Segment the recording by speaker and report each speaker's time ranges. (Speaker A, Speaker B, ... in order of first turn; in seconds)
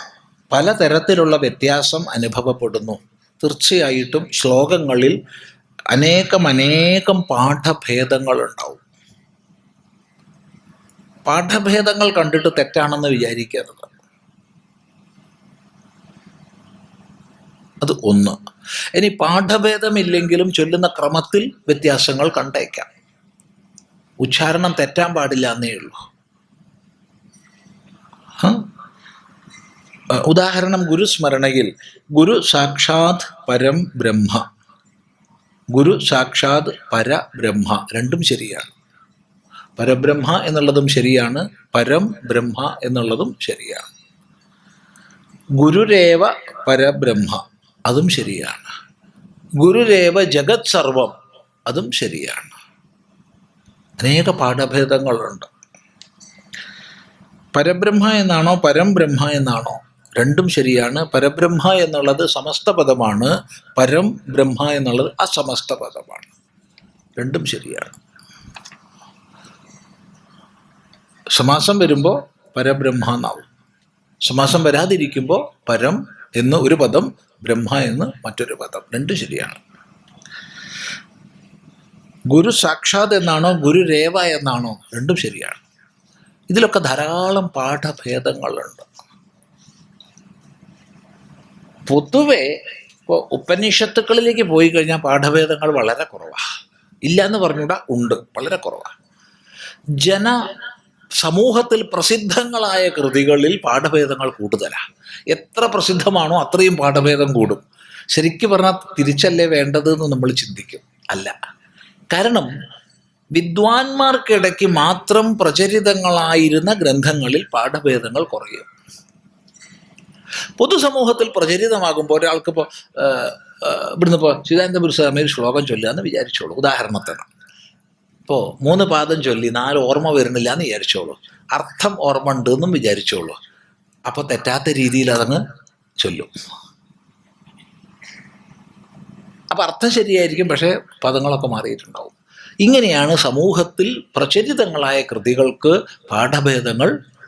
Speaker A: 0.5-5.2, 5.9-8.8, 11.2-13.9, 17.8-18.4, 18.9-22.9, 24.2-26.0, 30.2-34.4, 35.7-38.7, 39.8-43.8, 45.6-48.7, 49.6-51.1, 51.7-52.5, 54.0-55.5, 57.5-66.3, 67.2-68.0, 71.3-73.5, 74.2-79.6, 82.3-85.6, 86.5-88.8, 91.9-92.5, 93.0-96.4, 97.0-98.9, 100.0-100.4, 101.2-107.6, 108.1-111.3, 112.1-112.5, 113.3-118.7, 120.6-127.3, 128.3-133.4, 134.1-135.4, 136.0-136.3, 139.5-146.9